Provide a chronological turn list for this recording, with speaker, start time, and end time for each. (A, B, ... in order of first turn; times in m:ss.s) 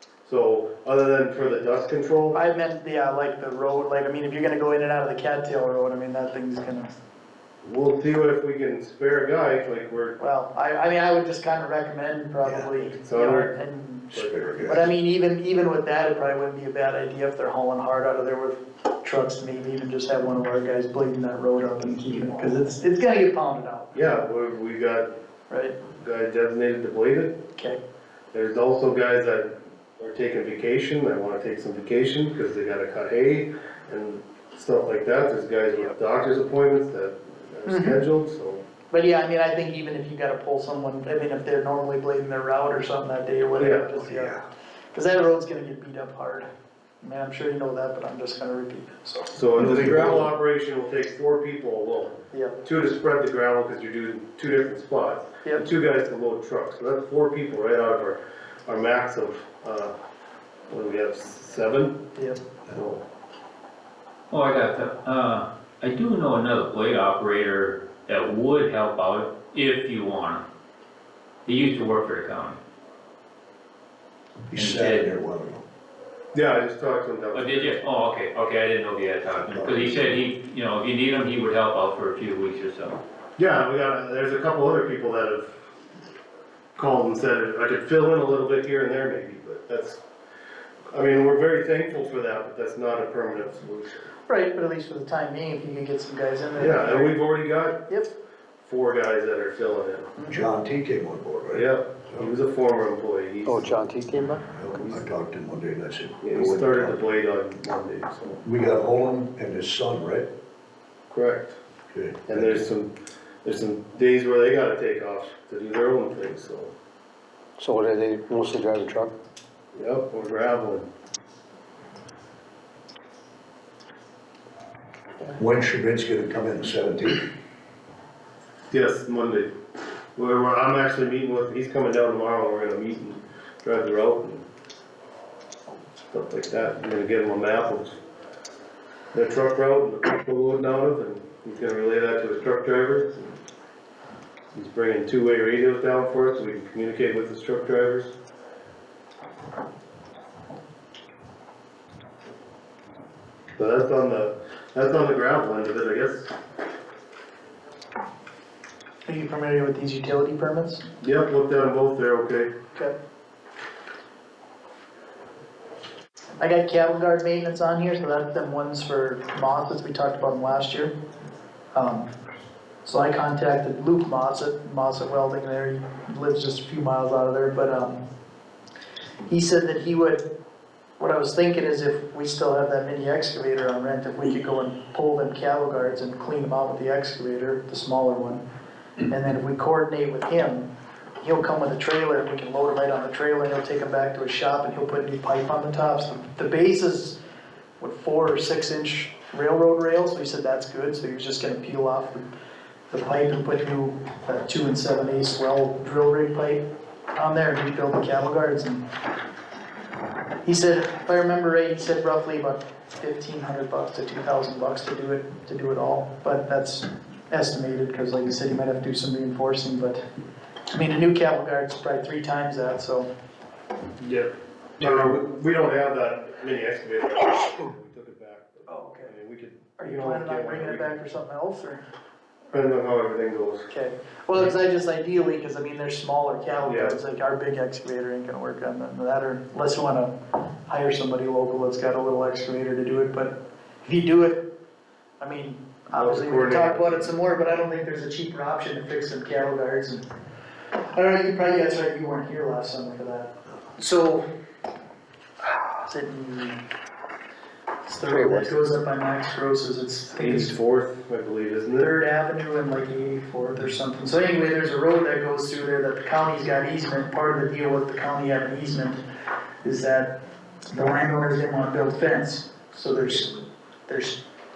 0:00.2-0:02.4 A
0:02.3-0:06.9 B
0:07.6-0:10.2 A
0:10.2-0:23.9 B
0:12.4-0:12.7 C
0:12.9-0:13.6 A
0:14.2-0:14.9 C
0:23.9-0:25.2 A
0:25.5-0:25.8 B
0:25.9-0:27.4 A
0:28.3-0:38.6 A
0:37.6-0:38.0 B
0:38.9-0:44.4 B
0:43.6-0:44.1 A
0:44.1-0:44.4 C
0:44.9-0:46.5 B
0:47.0-0:49.4 B
0:49.3-0:59.9 A
0:49.6-0:50.3 C
0:52.3-0:52.6 B
1:00.7-1:02.0 A
1:02.7-1:03.0 A
1:04.3-1:10.4 D
1:11.4-1:12.6 D
1:14.5-1:15.6 C
1:14.5-1:15.1 D
1:16.3-1:17.8 A
1:17.3-1:23.0 D
1:19.5-1:20.2 C
1:23.4-1:25.6 A
1:26.8-1:30.0 A
1:30.9-1:34.1 A
1:34.3-1:37.2 B
1:36.6-1:37.9 A
1:38.6-1:40.1 A
1:40.3-1:42.3 C
1:41.5-1:43.7 A
1:43.4-1:44.4 E
1:44.4-1:47.0 C
1:44.8-1:45.1 A
1:46.2-1:48.4 A
1:48.4-1:50.3 C
1:51.1-1:51.6 A
1:51.9-1:52.6 C
1:52.3-1:52.9 A
1:53.4-1:56.7 A
1:57.6-1:59.1 E
1:59.7-2:00.9 A
2:05.4-2:07.3 C
2:08.7-2:09.5 A
2:10.2-2:14.4 A
2:16.1-2:18.0 A
2:19.1-2:23.2 A
2:24.5-2:28.1 A
2:33.6-2:36.3 A
2:39.0-2:40.8 B
2:41.0-2:42.5 A
2:46.4-2:50.9 B
2:51.7-2:52.1 B
2:52.8-2:58.0 B
2:59.2-3:00.2 B
3:01.0-3:08.4 B
3:09.0-3:10.7 B
3:11.2-3:17.2 B
3:17.8-3:22.3 B
3:22.9-3:28.8 B
3:30.4-3:40.0 B
3:40.7-3:43.1 B
3:44.0-3:50.9 A
3:48.7-3:49.1 B
3:49.8-3:51.8 B
3:52.5-3:53.7 A
3:53.7-4:00.1 B
3:56.6-3:56.9 A
4:00.6-4:04.4 B
4:05.2-4:10.0 B
4:05.9-4:07.1 A
4:10.7-4:14.2 B
4:15.8-4:16.6 B
4:17.8-4:20.6 B
4:20.1-4:22.0 A
4:21.8-4:29.0 B
4:29.6-4:30.2 B
4:30.7-4:34.2 B